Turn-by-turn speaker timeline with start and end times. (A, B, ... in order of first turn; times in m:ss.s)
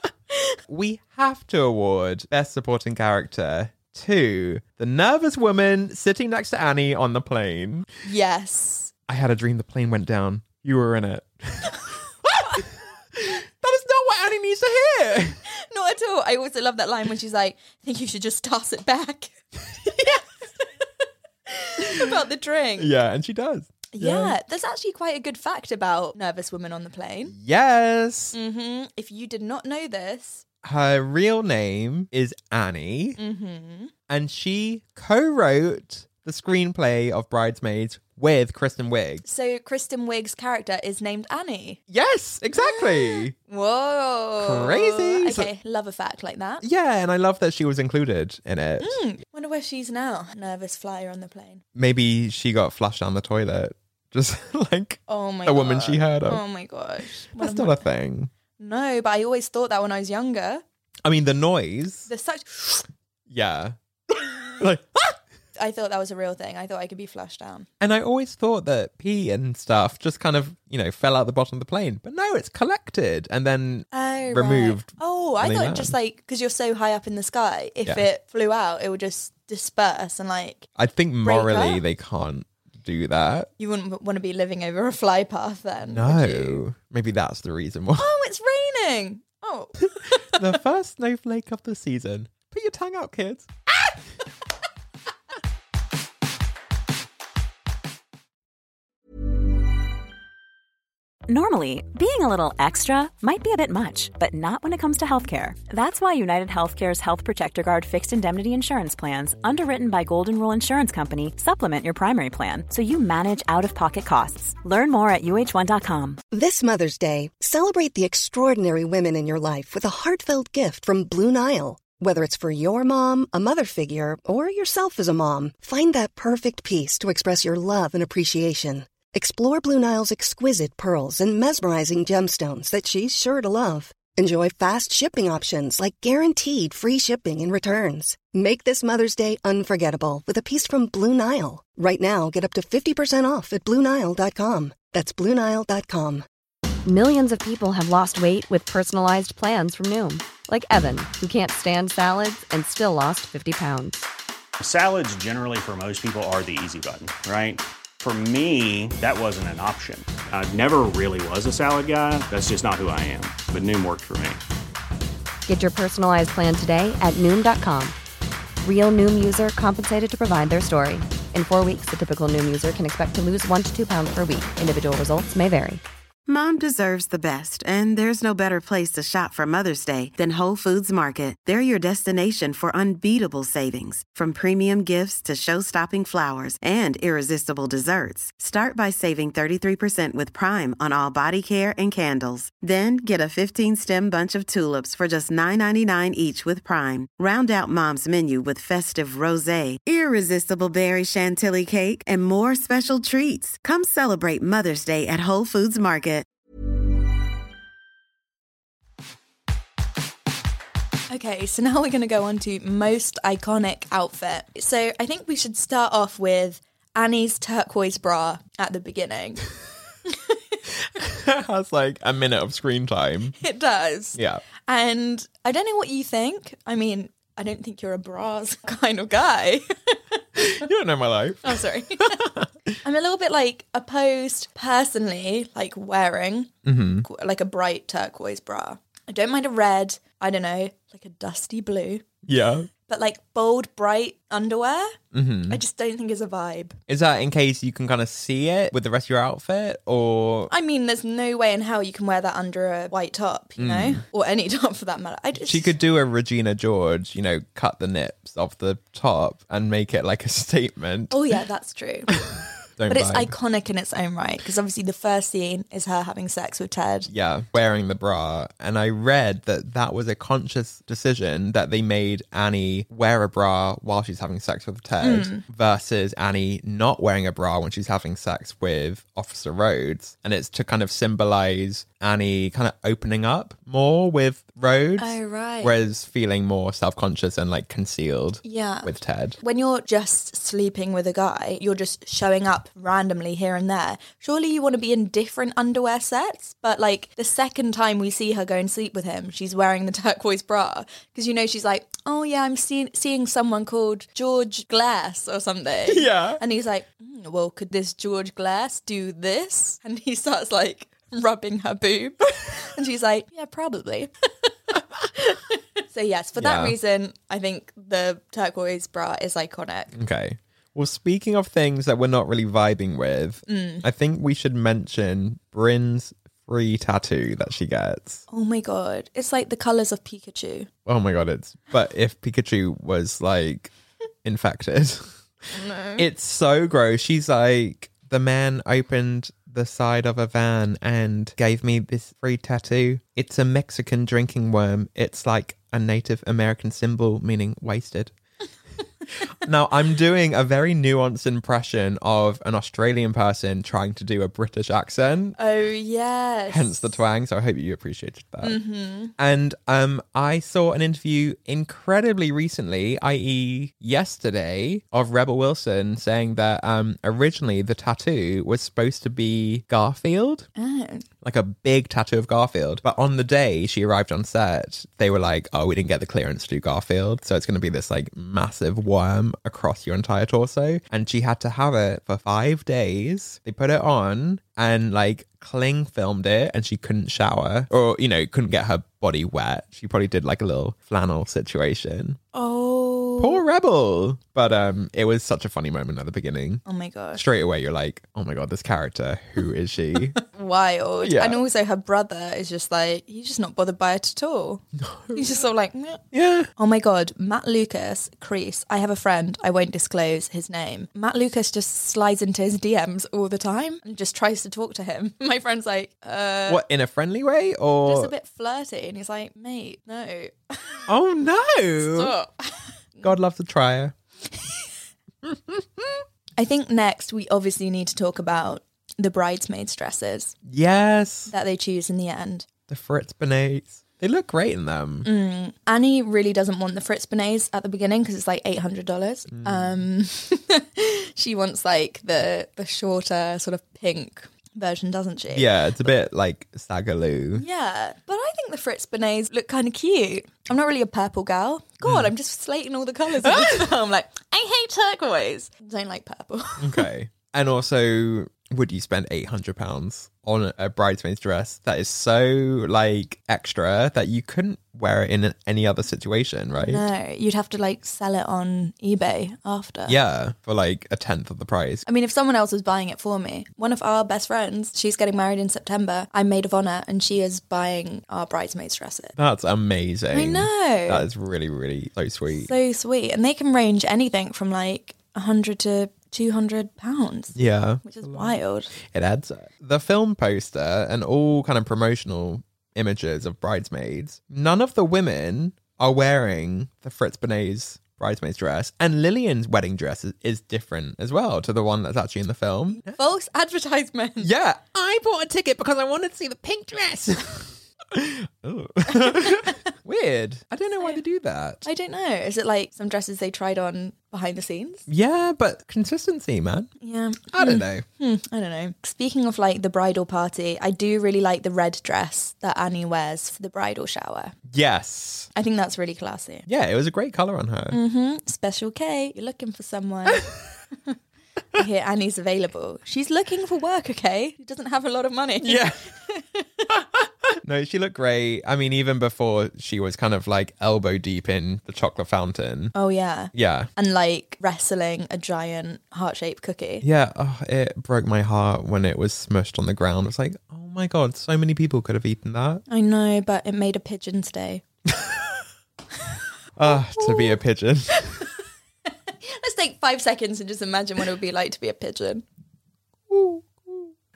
0:00.7-0:07.9 A
0:08.0-0:08.9 B
0:09.1-0:15.4 A
0:15.5-0:20.8 B
0:21.5-0:22.9 B
0:21.8-0:22.1 A
0:22.8-0:24.4 A
0:23.9-0:27.3 B
0:27.3-0:28.4 A
0:28.3-0:30.4 B
0:30.6-0:33.2 A
0:33.2-0:33.9 B
0:34.1-0:39.2 A
0:39.2-0:41.8 B
0:41.9-0:43.3 A
0:42.5-0:46.6 B
0:44.4-0:45.5 A
0:46.6-0:49.0 A
0:48.8-0:51.6 B
0:51.7-0:56.4 A
0:55.1-0:57.8 B
0:57.0-0:58.3 A
0:58.6-1:00.6 B
1:01.0-1:02.1 A
1:02.1-1:02.9 B
1:03.3-1:03.8 A
1:04.6-1:05.2 A
1:05.6-1:07.7 B
1:07.8-1:15.9 A
1:13.9-1:20.7 B
1:20.8-1:23.5 A
1:21.2-1:21.8 B
1:23.6-1:26.6 B
1:25.9-1:28.1 A
1:28.0-1:30.4 B
1:30.3-1:33.5 A
1:41.3-1:56.2 C
1:56.3-2:26.2 D
2:26.8-2:34.1 E
2:34.6-2:44.4 F
2:45.5-2:47.9 E
2:48.6-2:55.8 E
2:56.3-3:26.2 G
3:31.1-3:39.4 B
3:40.1-3:40.6 B
3:40.9-3:43.4 A
3:43.4-3:50.2 B
3:44.2-3:44.4 A
3:50.4-3:52.5 A
3:51.4-3:52.3 B
3:52.8-3:56.5 B
3:56.6-3:57.0 A
3:57.0-4:02.0 B
4:02.2-4:02.7 A
4:02.9-4:05.0 B
4:05.1-4:05.6 A
4:05.5-4:06.8 B
4:06.9-4:10.5 A
4:10.5-4:15.7 B
4:13.6-4:14.0 A
4:15.4-4:21.2 A
4:21.1-4:22.1 B
4:22.3-4:23.3 A
4:22.9-4:27.1 B
4:27.1-4:49.4 A
4:35.0-4:35.4 B
4:45.0-4:45.7 B
4:48.4-5:14.1 B
5:05.9-5:06.4 A
5:15.1-5:19.9 B
5:16.4-5:16.8 A
5:19.9-5:28.2 A
5:23.5-5:23.8 B
5:28.3-5:30.7 B
5:30.8-5:33.7 A
5:34.2-5:35.2 A
5:35.5-5:36.0 B
5:36.0-5:48.1 A
5:49.2-5:55.4 A
5:55.4-5:56.9 B
5:56.5-5:58.6 A
5:58.4-5:59.1 B
5:59.2-6:10.5 A
6:10.6-6:11.0 B
6:11.2-6:32.2 A
6:32.3-6:33.4 B
6:33.2-6:36.6 A
6:36.6-6:37.2 B
6:37.1-6:40.2 A
6:40.2-6:46.0 B
6:41.0-6:41.4 A
6:44.8-6:45.3 A
6:46.1-6:46.5 A
6:46.6-6:56.6 B
6:56.5-6:58.1 A
6:57.8-7:00.8 B
7:00.9-7:02.1 A
7:01.8-7:03.1 B
7:03.0-7:03.9 A
7:05.2-7:06.0 A
7:06.4-7:10.4 B
7:10.4-7:11.3 A
7:11.3-7:12.5 B
7:12.7-7:15.1 A
7:15.0-7:25.5 B
7:19.3-7:19.7 A
7:25.3-7:27.4 A
7:27.3-7:36.9 B
7:31.8-7:32.1 A
7:33.2-7:33.7 A
7:36.6-7:46.8 A
7:46.6-7:50.0 B
7:49.8-7:51.8 A
7:51.8-7:59.1 B
7:59.2-8:02.5 A
8:00.1-8:01.1 B
8:02.3-8:08.7 B
8:07.3-8:22.9 A
8:22.7-8:24.3 B
8:24.2-8:31.6 A
8:28.9-8:29.6 B
8:31.6-8:34.8 B
8:34.9-8:36.7 A
8:36.8-8:44.4 B
8:37.3-8:37.8 A
8:44.5-8:45.3 A
8:45.3-8:46.4 B
8:46.4-8:47.8 A
8:47.7-8:50.3 B
8:51.5-8:56.6 B
8:55.4-8:55.9 A
8:56.7-9:02.7 A
9:02.7-9:06.8 B
9:03.3-9:03.7 A
9:06.8-9:12.6 A
9:12.7-9:14.6 B
9:14.9-9:15.2 A
9:16.6-9:18.2 A
9:16.6-9:17.4 B
9:19.2-9:22.2 B
9:23.1-9:23.9 A